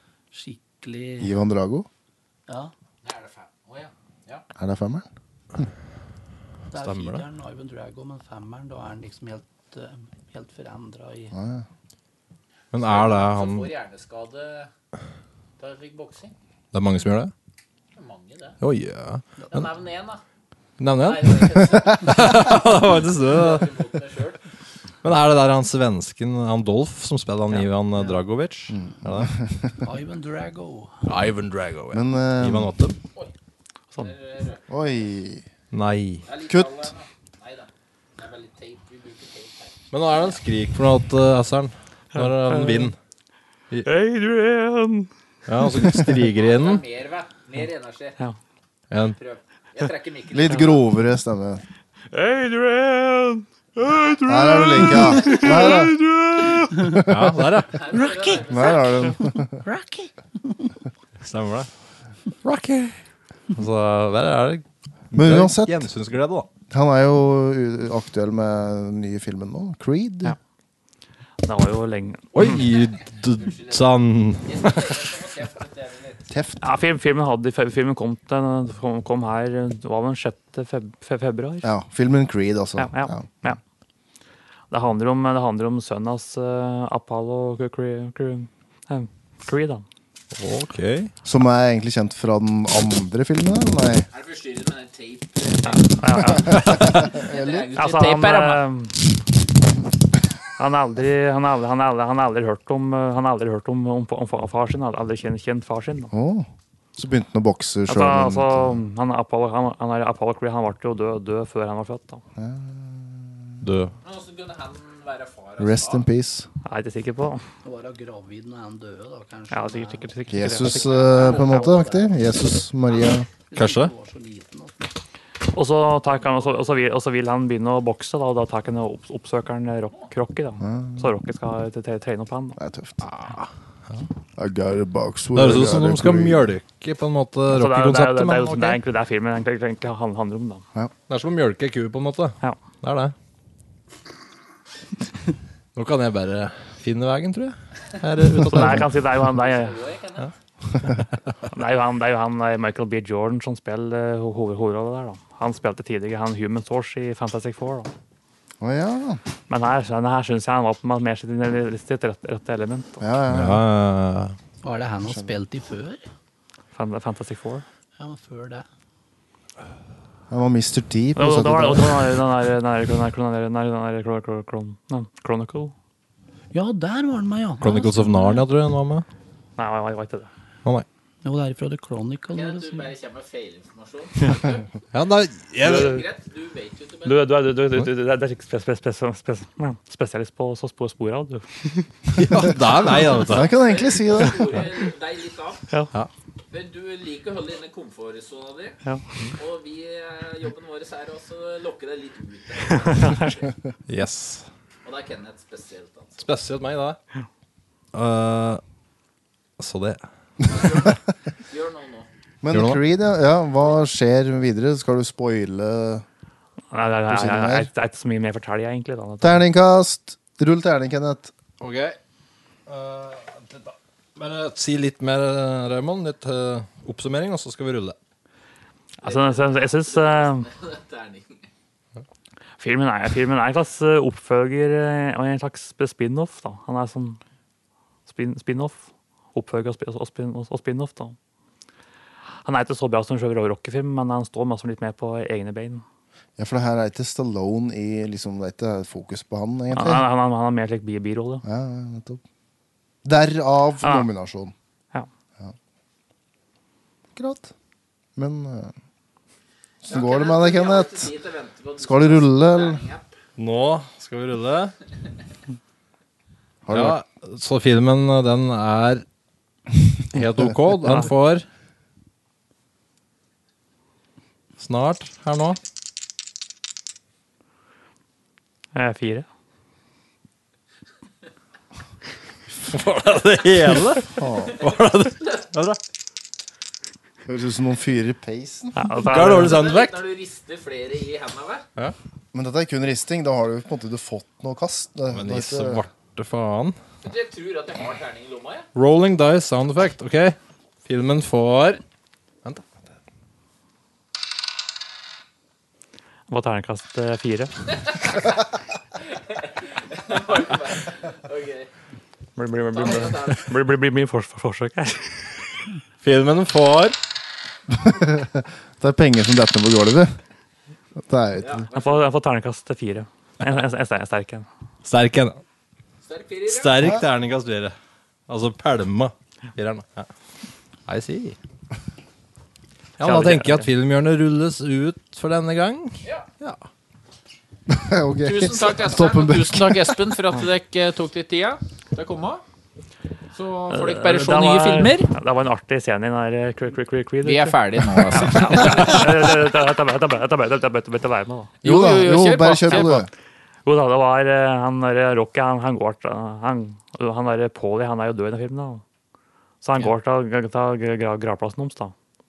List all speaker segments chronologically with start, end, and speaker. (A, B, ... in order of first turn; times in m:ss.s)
0:00.3-0:01.3 A
0:01.2-0:01.9 B
0:02.5-0:02.7 A
0:03.0-0:04.4 C
0:04.6-0:05.1 B
0:06.7-0:11.3 A
0:06.8-0:07.2 D
0:11.3-0:11.6 B
0:12.7-0:13.7 D
0:12.8-0:14.7 C
0:15.6-0:16.3 C
0:16.7-0:17.3 D
0:18.0-0:18.6 C
0:18.6-0:19.2 D
0:19.5-0:20.2 C
0:20.8-0:23.7 D
0:21.0-0:24.4 C
0:25.0-0:29.3 D
0:28.7-0:29.7 B
0:29.8-0:31.0 A
0:31.1-0:33.0 D
0:31.9-0:32.7 B
0:34.0-0:34.6 C
0:34.7-0:35.4 B
0:35.7-0:36.2 D
0:36.3-0:40.4 C
0:36.5-0:36.9 B
0:39.9-0:43.0 D
0:42.2-0:42.9 E
0:43.8-0:45.1 E
0:45.5-0:46.8 D
0:46.4-0:48.2 C
0:48.9-0:49.2 D
0:49.2-0:50.8 C
0:50.3-0:51.6 B
0:52.1-0:56.9 E
0:54.2-0:56.0 B
0:56.8-0:57.1 B
0:57.0-0:57.8 D
0:57.7-0:59.1 C
0:58.4-0:59.6 B
1:01.2-1:01.7 D
1:02.4-1:02.9 D
1:03.5-1:06.5 D
1:05.1-1:05.8 B
1:06.7-1:10.3 B
1:11.4-1:12.6 E
1:12.3-1:15.0 D
1:13.4-1:13.9 C
1:14.4-1:16.2 C
1:16.3-1:16.6 B
1:16.6-1:21.7 E
1:21.6-1:23.4 B
1:22.8-1:23.6 E
1:24.7-1:29.8 E
1:30.4-1:31.1 D
1:31.2-1:34.1 B
1:34.1-1:38.6 C
1:35.6-1:37.2 E
1:36.5-1:37.7 B
1:37.8-1:39.0 E
1:40.6-1:46.1 E
1:46.1-1:48.8 B
1:47.9-1:52.2 E
1:52.4-1:53.4 B
1:53.6-1:53.9 D
1:54.0-1:56.0 C
1:55.6-1:56.5 B
1:56.6-1:57.4 E
1:57.6-2:00.8 A
1:59.5-2:01.6 E
2:00.3-2:03.3 B
2:01.3-2:02.0 A
2:03.5-2:04.8 A
2:03.5-2:03.9 D
2:05.5-2:12.6 E
2:10.6-2:11.1 B
2:12.6-2:13.0 B
2:13.0-2:14.0 D
2:14.4-2:16.5 B
2:15.3-2:18.8 D
2:17.5-2:20.6 E
2:21.1-2:23.1 D
2:25.8-2:28.9 D
2:28.5-2:29.8 E
2:29.4-2:30.3 C
2:31.5-2:37.9 E
2:38.6-2:39.2 B
2:39.5-2:43.0 E
2:43.0-2:43.6 B
2:43.3-2:44.3 D
2:44.6-2:46.0 A
2:46.7-2:47.6 E
2:48.0-2:48.6 A
2:50.3-2:52.1 B
2:51.2-2:55.7 E
2:56.5-2:58.4 A
2:57.6-2:59.0 D
2:59.6-3:00.3 E
3:01.2-3:02.9 A
3:02.3-3:04.6 C
3:04.9-3:06.0 D
3:05.6-3:07.3 C
3:05.6-3:06.0 E
3:07.0-3:11.9 E
3:12.2-3:13.5 D
3:13.3-3:14.5 B
3:13.4-3:15.6 C
3:16.5-3:18.8 C
3:19.4-3:23.2 C
3:22.7-3:23.4 E
3:23.9-3:24.4 D
3:24.8-3:26.2 C
3:26.2-3:27.0 D
3:27.9-3:28.6 D
3:29.6-3:30.0 D
3:30.5-3:31.0 C
3:31.5-3:32.1 C
3:32.4-3:36.0 B
3:32.5-3:32.8 D
3:36.7-3:39.4 E
3:37.1-3:37.7 B
3:39.2-3:41.3 B
3:41.6-3:42.0 D
3:42.7-3:48.0 D
3:49.0-3:50.5 E
3:49.0-3:51.5 C
3:52.6-3:57.2 E
3:58.1-4:01.2 E
4:02.4-4:05.8 E
4:06.4-4:10.0 B
4:09.7-4:11.4 E
4:11.4-4:12.2 B
4:13.0-4:14.5 B
4:13.8-4:14.1 E
4:17.1-4:17.5 B
4:18.2-4:18.7 B
4:19.8-4:21.1 B
4:19.9-4:23.1 C
4:21.8-4:22.8 B
4:23.4-4:24.7 D
4:26.6-4:27.0 B
4:26.7-4:29.0 D
4:30.1-4:31.4 D
4:34.6-4:35.6 D
4:38.7-4:39.2 E
4:42.7-4:45.8 D
4:44.2-4:44.6 B
4:47.2-4:48.7 B
4:48.7-4:49.6 E
4:49.0-4:50.0 D
4:49.4-4:51.6 C
4:52.3-4:55.8 B
4:55.1-4:56.8 D
4:57.0-4:58.7 C
4:58.7-5:01.8 D
5:06.3-5:07.5 E
5:09.9-5:11.7 C
5:12.4-5:15.2 E
5:12.7-5:13.4 C
5:16.0-5:16.9 D
5:17.8-5:20.1 B
5:21.0-5:21.6 B
5:21.4-5:22.0 C
5:21.7-5:24.5 E
5:24.8-5:25.4 D
5:26.0-5:26.7 C
5:26.4-5:27.7 D
5:28.3-5:30.1 D
5:30.9-5:31.4 D
5:33.0-5:36.6 D
5:33.0-5:33.7 E
5:37.7-5:40.0 B
5:38.2-5:42.4 C
5:43.3-5:45.1 C
5:43.7-5:47.6 E
5:47.2-5:49.0 C
5:48.1-5:51.5 E
5:51.6-5:53.0 C
5:51.6-5:53.1 B
5:52.7-5:53.0 E
5:53.6-5:58.8 E
5:59.6-6:01.9 E